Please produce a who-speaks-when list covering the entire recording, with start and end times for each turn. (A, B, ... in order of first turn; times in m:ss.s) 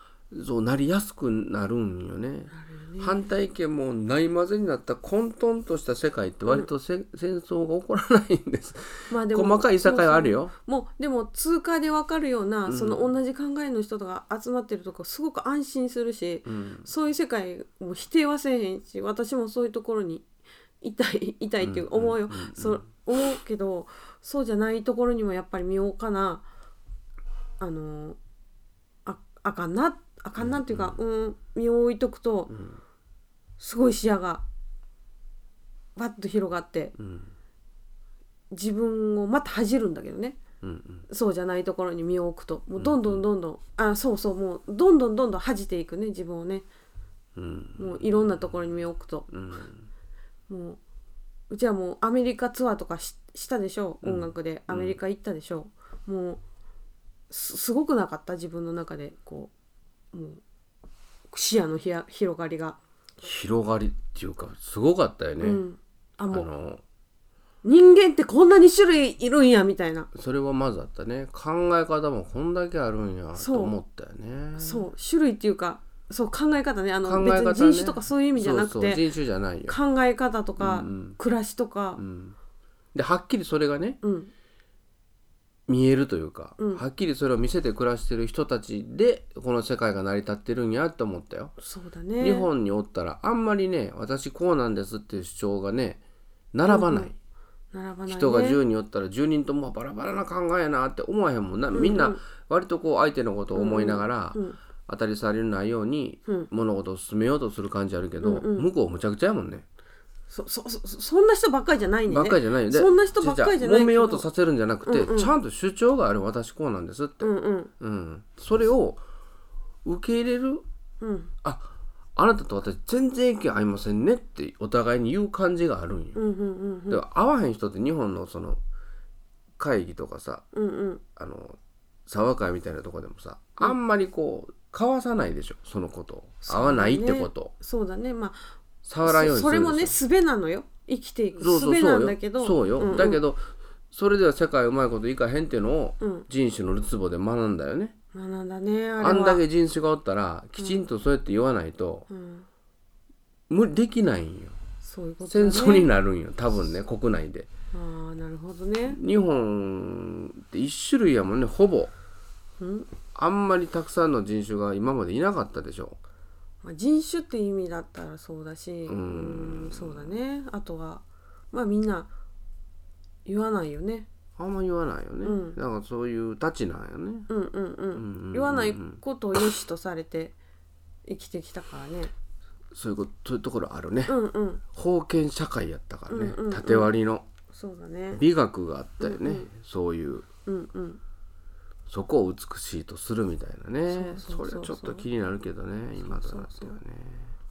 0:00.3-0:10.5 A
0:02.5-0:03.3 B
0:09.1-0:20.3 B
0:12.7-0:13.1 A
0:16.5-0:16.9 A
0:20.8-0:26.4 B
0:21.6-0:22.8 A
0:27.6-0:28.2 B
0:29.1-0:32.6 B
0:30.4-0:31.0 A
0:32.5-0:32.8 A
0:33.6-0:34.4 B
0:36.0-0:37.0 B
0:37.0-0:37.3 A
0:38.5-0:40.4 B
0:40.6-0:41.0 A
0:41.1-0:46.7 B
0:42.8-0:43.2 A
0:47.4-0:48.1 A
0:47.8-0:49.3 B
0:49.3-0:49.9 A
0:50.5-0:50.8 B
0:51.5-0:56.4 B
0:54.0-0:55.0 A
0:57.3-0:59.5 B
1:00.1-1:00.4 B
1:01.3-1:02.8 B
1:03.2-1:05.6 A
1:05.4-1:06.5 B
1:06.3-1:06.8 A
1:07.6-1:10.1 B
1:10.1-1:14.9 A
1:13.4-1:13.8 B
1:14.6-1:19.1 B
1:17.0-1:19.8 A
1:19.7-1:22.0 B
1:20.6-1:21.2 A
1:22.0-1:22.4 A
1:22.9-1:24.0 A
1:24.0-1:24.3 B
1:25.7-1:31.5 A
1:26.6-1:26.8 B
1:31.6-1:32.5 B
1:32.2-1:36.0 A
1:36.5-1:37.1 A
1:36.7-1:37.1 B
1:37.7-1:38.6 B
1:38.1-1:49.6 A
1:41.7-1:42.2 B
1:43.5-1:44.6 B
1:48.2-1:48.7 B
1:50.3-1:54.3 B
1:52.1-1:59.0 A
1:54.8-1:55.3 B
1:57.2-1:57.7 B
1:59.8-2:00.6 A
2:01.0-2:01.3 B
2:01.4-2:06.2 A
2:06.2-2:07.0 B
2:06.9-2:08.6 A
2:09.6-2:10.5 A
2:10.5-2:11.0 B
2:11.2-2:17.5 A
2:16.4-2:18.5 B
2:18.8-2:20.0 A
2:19.0-2:23.2 B
2:21.4-2:28.0 A
2:28.1-2:29.4 B
2:29.0-2:32.1 A
2:30.6-2:30.8 B
2:32.1-2:32.5 B
2:33.5-2:34.6 A
2:34.8-2:35.9 B
2:35.3-2:37.5 A
2:37.7-2:39.0 B
2:38.9-2:41.9 A
2:42.6-2:42.9 B
2:43.1-2:46.0 A
2:46.6-2:52.1 B
2:48.9-2:50.1 A
2:53.3-2:54.1 B
2:54.4-2:57.3 A
2:55.2-2:55.6 B
2:57.3-3:00.4 B
2:58.0-2:59.5 A
3:01.1-3:02.1 B
3:02.7-3:04.2 A
3:04.1-3:04.6 B
3:04.7-3:07.3 A
3:06.1-3:07.0 B
3:07.5-3:08.2 B
3:08.2-3:10.3 A
3:09.0-3:09.5 B
3:10.5-3:11.0 B
3:11.9-3:17.3 A
3:13.9-3:15.0 B
3:16.0-3:16.8 B